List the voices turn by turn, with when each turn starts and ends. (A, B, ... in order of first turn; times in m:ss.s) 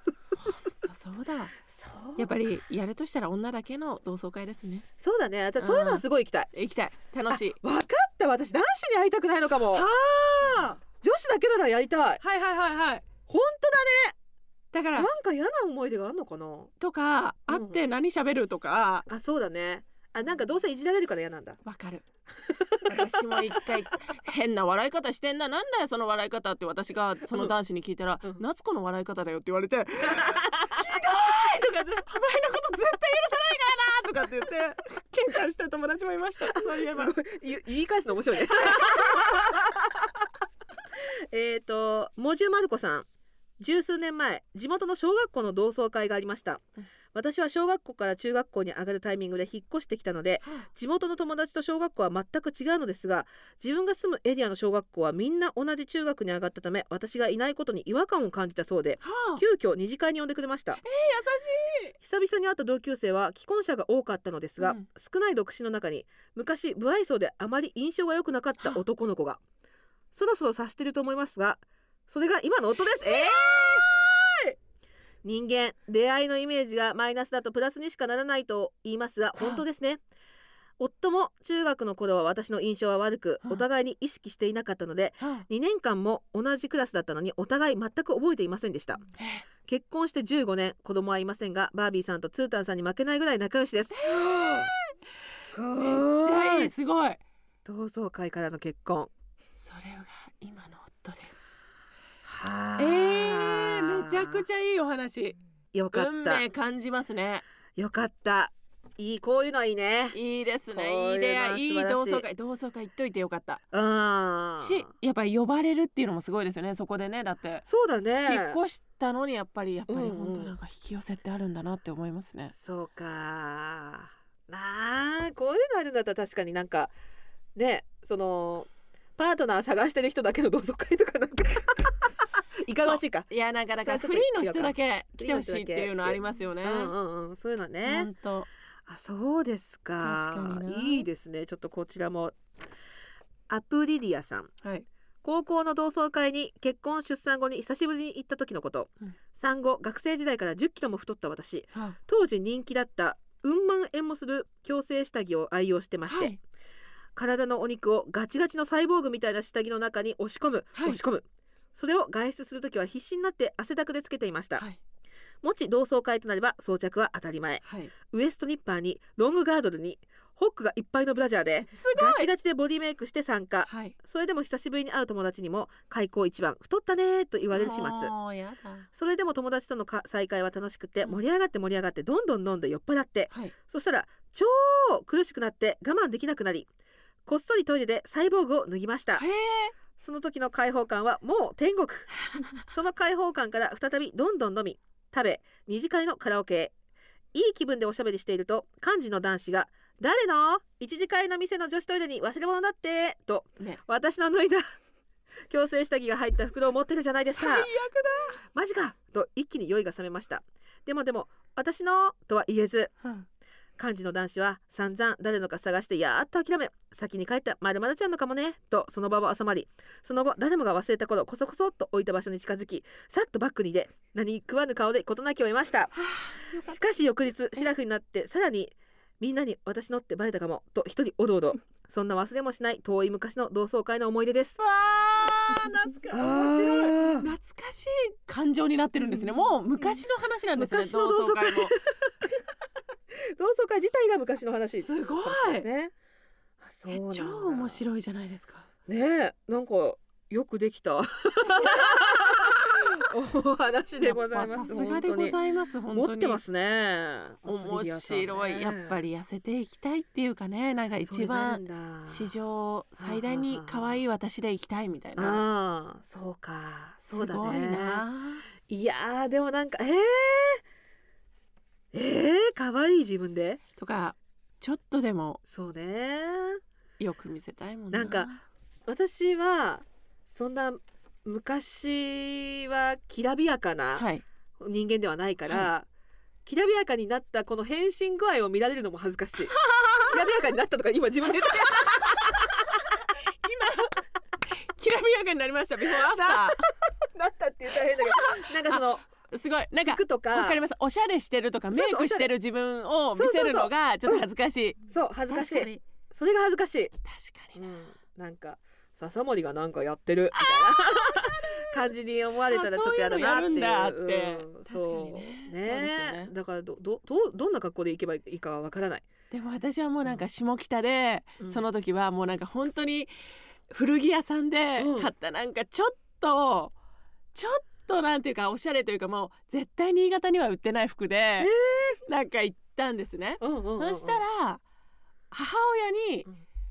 0:00.4-0:01.6 A
0:01.7-0:02.3 B
0:02.2-0:04.9 A
0:05.0-0:06.5 B
0:05.6-0:07.6 A
0:07.3-0:09.9 B
0:09.7-0:10.8 A
0:10.9-0:12.2 B
0:12.2-0:13.0 A
0:13.3-0:14.2 B
0:14.7-0:15.1 A
0:14.9-0:16.7 B
0:16.8-0:19.1 A
0:17.5-0:17.8 B
0:19.1-0:21.6 B
0:21.6-0:22.0 A
0:22.5-0:23.6 B
0:22.8-0:37.2 A
0:30.1-0:31.0 B
0:36.5-0:40.1 B
0:38.5-0:39.4 A
0:40.9-0:43.1 B
0:43.6-1:00.8 B
0:50.4-0:50.7 A
0:59.0-0:59.4 A
1:00.8-1:01.9 A
1:02.0-1:09.4 B
1:04.6-1:04.9 A
1:10.1-1:14.5 B
1:12.9-1:13.9 A
1:15.2-1:20.0 B
1:19.4-1:19.6 A
1:20.8-1:29.0 B
1:25.2-1:25.4 A
1:29.2-1:29.4 A
1:29.6-1:34.7 B
1:33.9-1:34.9 A
1:35.5-1:36.7 B
1:35.8-1:37.2 A
1:37.6-1:39.1 B
1:39.5-1:41.6 A
1:42.2-1:44.4 B
1:42.8-1:45.4 A
1:45.7-1:46.4 B
1:45.9-1:47.4 A
1:47.8-1:50.2 B
1:50.1-1:53.6 A
1:50.7-1:52.2 B
1:53.7-1:54.9 B
1:54.6-1:57.6 A
1:57.6-1:58.6 B
1:58.2-2:02.5 A
1:59.9-2:00.5 B
2:02.5-2:06.9 B
2:07.5-2:12.1 B
2:12.6-2:13.3 B
2:12.8-2:16.9 A
2:13.8-2:18.1 B
2:17.8-2:18.5 A
2:18.9-2:22.3 B
2:20.0-2:21.1 A
2:23.5-2:24.5 B
2:24.6-2:24.9 A
2:25.2-2:36.3 B
2:36.1-2:36.4 A
2:37.2-2:44.6 B
2:40.7-2:41.0 A
2:45.4-2:58.1 B
2:47.6-2:47.9 A
2:51.7-2:52.3 A
2:53.7-2:53.9 A
2:57.5-2:58.9 A
2:58.9-3:06.7 B
3:07.2-3:09.2 B
3:09.2-3:09.7 A
3:10.0-3:16.7 B
3:17.3-3:24.6 B
3:25.5-3:27.7 B
3:27.2-3:28.4 A
3:28.5-3:33.0 B
3:33.8-3:46.0 B
3:46.0-3:46.8 A
3:46.6-3:54.6 B
3:54.6-4:01.8 A
3:56.1-3:57.3 B
3:59.0-4:00.0 B
4:00.6-4:02.1 B
4:03.3-4:05.9 B
4:04.6-4:05.7 A
4:06.6-4:07.8 B
4:06.9-4:08.7 A
4:08.9-4:15.4 B
4:11.6-4:11.9 A
4:14.0-4:16.4 A
4:15.9-4:19.0 B
4:17.4-4:25.4 A
4:21.0-4:22.3 B
4:23.0-4:24.0 B
4:25.2-4:28.0 B
4:27.0-4:28.4 A
4:28.6-4:30.6 B
4:31.9-4:33.6 B
4:33.8-4:35.4 A
4:35.5-4:36.6 B
4:37.0-4:38.4 A
4:37.9-4:38.3 B
4:38.9-4:44.0 B
4:43.9-4:44.2 A
4:44.6-4:45.9 B
4:46.4-4:49.5 B
4:49.5-4:50.1 A
4:50.1-4:52.8 B
4:51.4-4:52.2 A
4:53.4-4:56.6 A
4:55.8-4:59.0 B
4:58.0-5:05.8 A
4:59.8-5:00.6 B
5:01.7-5:02.3 B
5:03.1-5:04.2 B
5:04.9-5:06.9 B
5:07.0-5:07.6 A
5:07.5-5:19.1 B
5:10.3-5:11.7 A
5:12.5-5:16.3 A
5:19.3-5:23.1 A
5:23.7-5:26.7 A
5:24.8-5:25.1 B
5:27.3-5:31.5 A
5:31.4-5:32.0 B
5:32.1-5:34.6 A
5:33.4-5:34.2 B
5:35.3-5:36.3 A